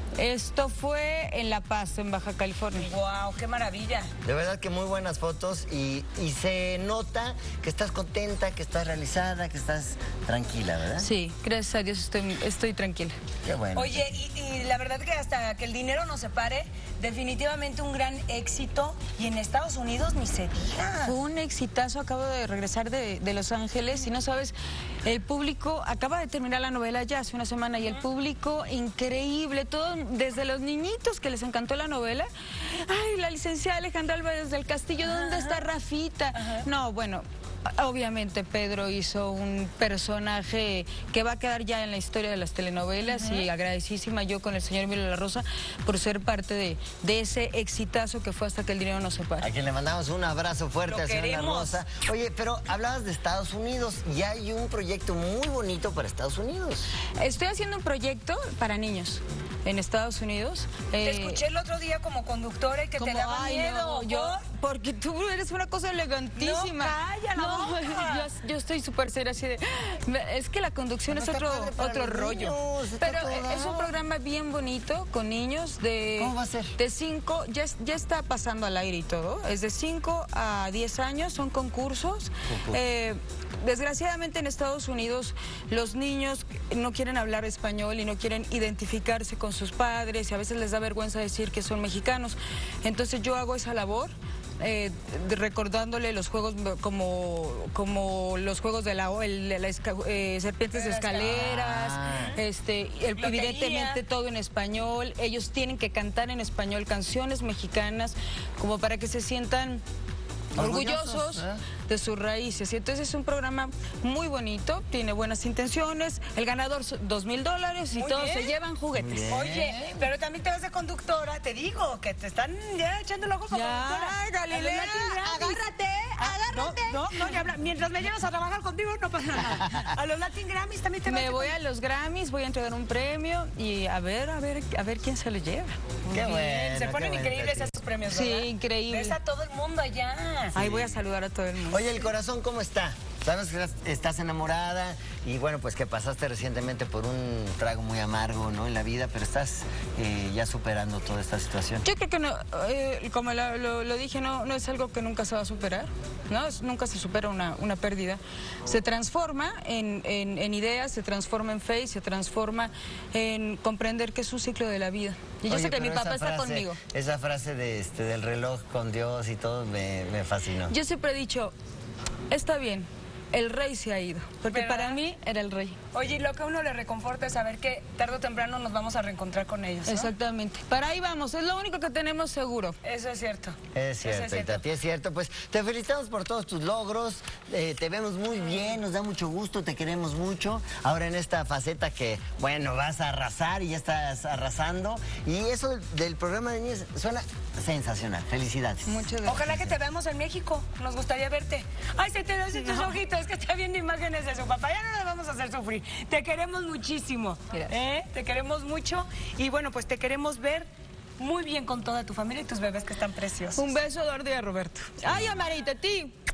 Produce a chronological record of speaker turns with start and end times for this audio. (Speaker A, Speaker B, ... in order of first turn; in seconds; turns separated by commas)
Speaker A: 0.1-2.9, Speaker B: 2.7-4.1, Speaker C: 4.2-11.1, Speaker A: 11.0-13.2, Speaker C: 13.4-14.0, Speaker B: 13.7-21.2, Speaker A: 21.0-49.5, Speaker B: 35.0-35.7, Speaker B: 36.3-36.6, Speaker B: 43.0-43.5, Speaker C: 49.4-56.9, Speaker B: 50.9-51.8, Speaker A: 57.1-61.4, Speaker B: 61.0-64.4, Speaker A: 63.0-109.8, Speaker B: 66.3-68.3, Speaker C: 71.1-73.9, Speaker C: 76.2-76.7, Speaker C: 82.5-82.8, Speaker B: 100.7-101.5, Speaker C: 101.2-102.4, Speaker B: 103.2-104.0, Speaker C: 110.5-111.6, Speaker A: 110.5-119.3, Speaker B: 117.9-118.5, Speaker C: 119.0-120.0, Speaker B: 119.2-131.5, Speaker A: 123.5-125.6, Speaker A: 126.2-127.5, Speaker A: 131.0-135.8, Speaker B: 136.0-140.6, Speaker C: 136.1-137.7, Speaker A: 138.1-139.2, Speaker A: 140.5-142.1, Speaker C: 140.6-141.0, Speaker C: 141.7-151.8, Speaker A: 151.8-166.8, Speaker C: 165.5-170.7, Speaker A: 170.7-171.5, Speaker A: 172.3-175.8, Speaker B: 174.5-175.0, Speaker B: 175.9-180.1, Speaker A: 179.8-182.8, Speaker B: 182.8-184.6, Speaker C: 183.7-199.1, Speaker A: 198.8-199.7, Speaker B: 199.2-213.7, Speaker A: 202.6-202.9, Speaker A: 213.5-216.1, Speaker C: 215.0-215.4